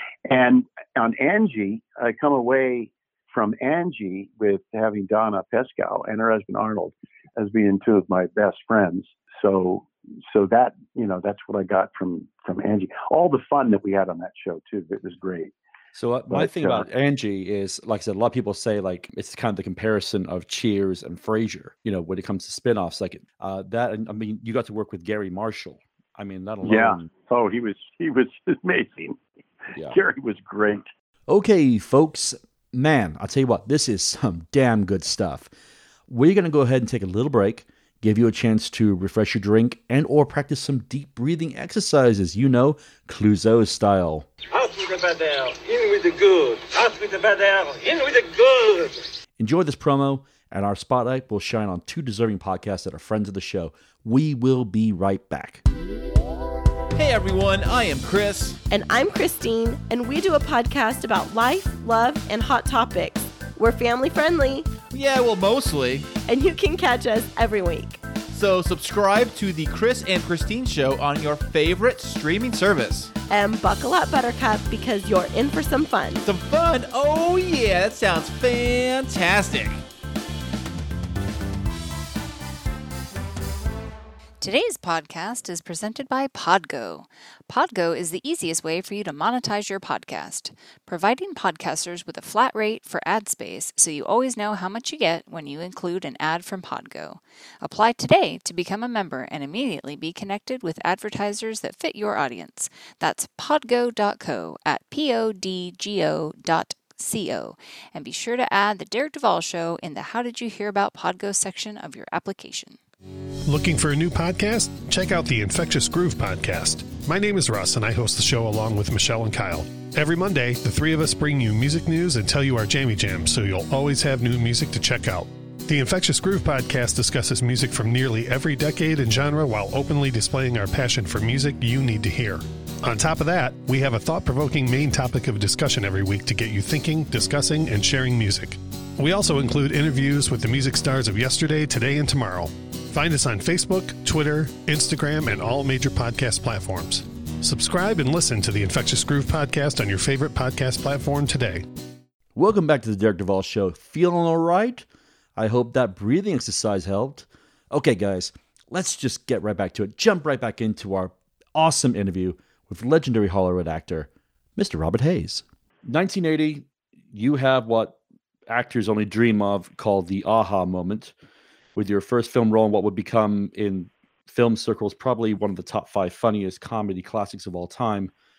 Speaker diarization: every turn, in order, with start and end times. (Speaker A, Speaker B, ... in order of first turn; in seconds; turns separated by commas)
Speaker A: 0.3-15.5, Speaker B: 15.9-27.1, Speaker A: 16.3-16.9, Speaker A: 26.6-29.2, Speaker A: 29.8-30.9, Speaker B: 31.3-35.5, Speaker B: 36.1-44.3, Speaker C: 44.5-49.0, Speaker B: 49.4-55.6, Speaker D: 56.9-58.6, Speaker E: 58.7-64.7, Speaker D: 64.9-66.1, Speaker E: 66.2-68.0, Speaker D: 68.3-73.1, Speaker E: 73.3-76.2, Speaker D: 76.2-79.8, Speaker F: 84.4-112.8, Speaker G: 113.5-151.6, Speaker B: 152.3-171.1, Speaker B: 171.8-178.1